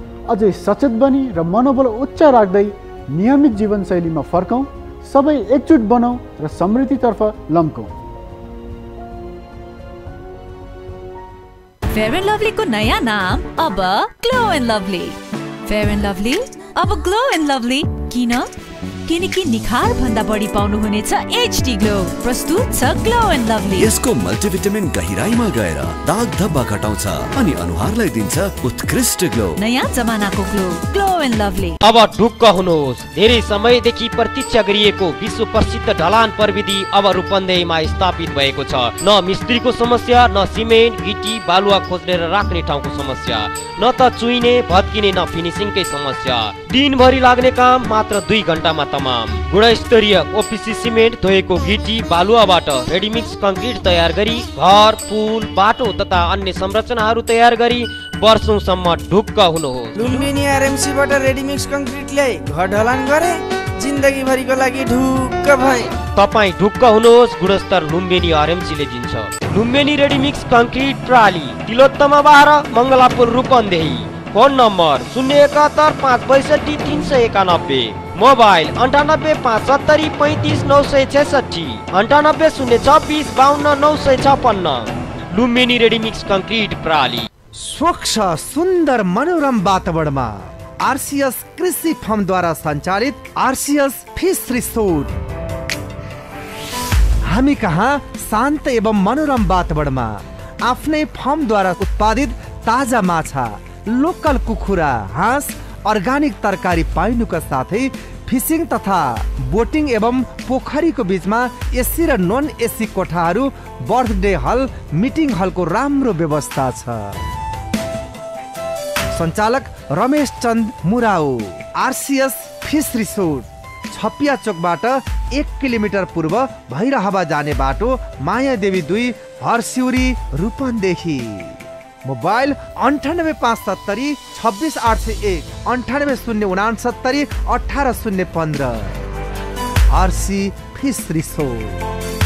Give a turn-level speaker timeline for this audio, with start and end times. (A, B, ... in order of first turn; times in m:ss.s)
0:00.3-0:07.9 A
0:11.9-0:18.5 B
0:19.1-0:23.9 B
0:23.8-0:29.6 C
0:29.6-0:31.8 B
0:31.8-1:00.1 D
1:00.0-1:05.9 E
1:06.1-1:27.3 D
1:27.6-1:35.1 F
1:37.2-1:57.2 F
1:59.1-2:19.0 F
2:19.9-2:21.8 F